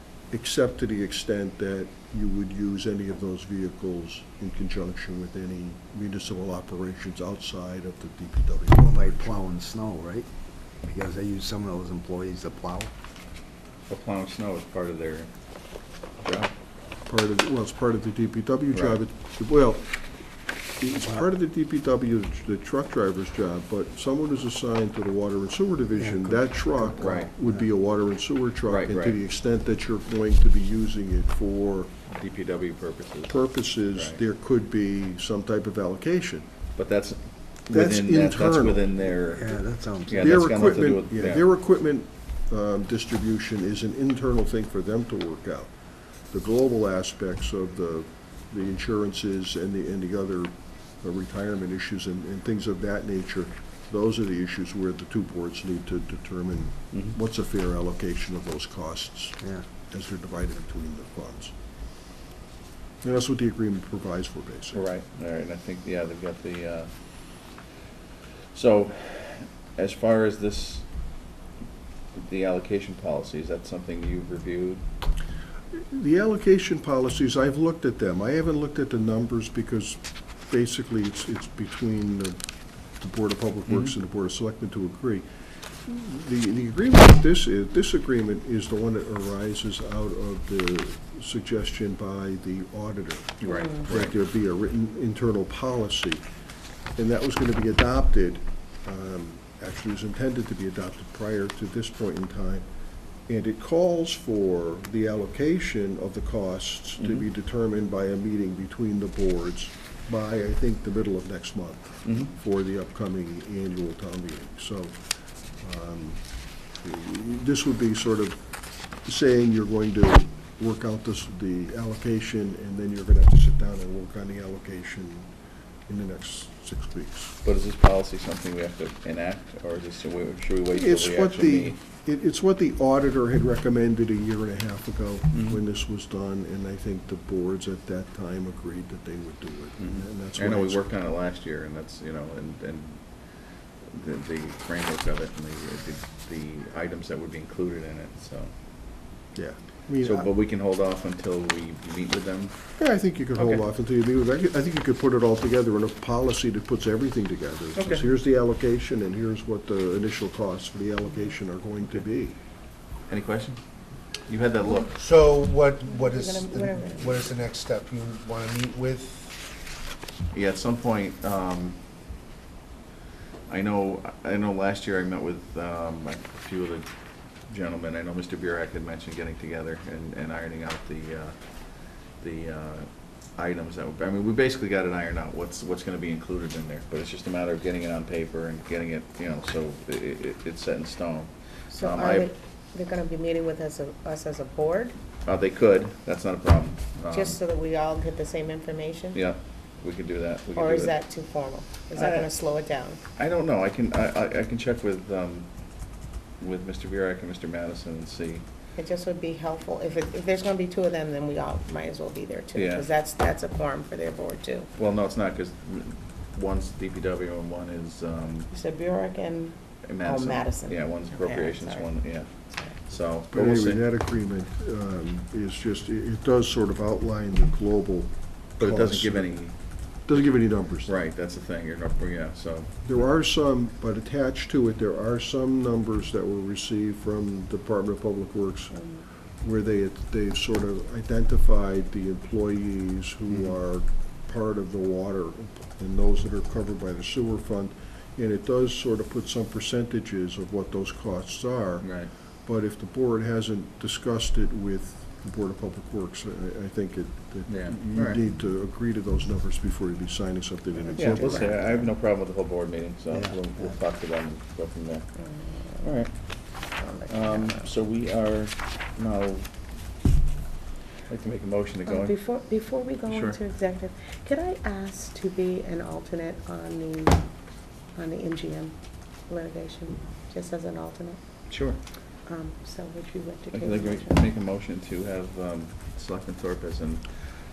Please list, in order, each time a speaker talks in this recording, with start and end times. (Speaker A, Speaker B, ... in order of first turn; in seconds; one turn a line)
Speaker A: 0.3-9.4
Speaker B: 8.9-10.3
Speaker B: 10.8-12.9
Speaker C: 13.9-15.3
Speaker C: 16.2-16.5
Speaker A: 17.1-20.0
Speaker C: 18.7-19.0
Speaker A: 20.8-31.9
Speaker B: 26.0-27.5
Speaker C: 27.0-27.3
Speaker C: 28.7-29.2
Speaker C: 32.1-34.2
Speaker A: 33.3-36.5
Speaker C: 36.8-39.5
Speaker A: 37.7-38.9
Speaker B: 39.3-40.5
Speaker C: 40.1-41.5
Speaker A: 40.2-45.7
Speaker A: 46.3-59.4
Speaker A: 59.9-61.5
Speaker A: 63.0-64.8
Speaker C: 64.7-66.9
Speaker C: 68.5-70.8
Speaker C: 72.2-74.8
Speaker A: 75.8-82.4
Speaker A: 83.0-85.3
Speaker A: 85.8-96.2
Speaker C: 93.4-94.1
Speaker A: 97.0-102.7
Speaker A: 103.3-115.0
Speaker C: 112.0-112.3
Speaker A: 115.6-116.2
Speaker A: 116.8-118.4
Speaker A: 119.0-125.3
Speaker A: 125.9-127.4
Speaker C: 127.4-131.8
Speaker A: 130.7-140.8
Speaker C: 135.3-135.6
Speaker C: 139.8-143.0
Speaker C: 143.9-148.5
Speaker A: 149.3-150.3
Speaker C: 150.0-152.6
Speaker A: 152.8-162.3
Speaker C: 153.3-153.6
Speaker C: 157.8-158.1
Speaker C: 163.1-163.6
Speaker C: 164.1-165.0
Speaker D: 165.0-169.3
Speaker E: 165.8-167.4
Speaker C: 170.3-171.8
Speaker C: 173.5-176.9
Speaker C: 177.5-181.3
Speaker C: 182.2-192.3
Speaker E: 191.7-195.0
Speaker C: 195.3-197.4
Speaker E: 197.1-199.2
Speaker C: 199.1-201.0
Speaker E: 200.6-203.0
Speaker C: 202.0-202.3
Speaker C: 203.2-205.5
Speaker C: 206.4-208.4
Speaker E: 208.8-214.7
Speaker C: 212.6-212.9
Speaker C: 214.8-218.5
Speaker E: 218.5-222.0
Speaker C: 219.9-222.3
Speaker C: 222.8-223.8
Speaker A: 223.3-229.3
Speaker C: 228.6-229.6
Speaker A: 230.1-231.0
Speaker C: 230.8-233.1
Speaker A: 232.8-238.8
Speaker E: 238.7-239.0
Speaker A: 239.4-251.9
Speaker C: 251.8-252.1
Speaker A: 252.4-261.6
Speaker C: 257.5-258.2
Speaker E: 260.9-261.8
Speaker C: 261.0-265.1
Speaker B: 263.1-263.7
Speaker E: 265.2-265.9
Speaker C: 265.8-266.1
Speaker E: 266.8-267.7
Speaker C: 267.1-269.5
Speaker C: 271.1-272.2
Speaker E: 271.9-277.2
Speaker C: 273.1-273.4
Speaker E: 278.0-278.8
Speaker E: 279.3-281.2
Speaker C: 281.5-281.8
Speaker E: 282.3-284.2
Speaker C: 283.5-287.1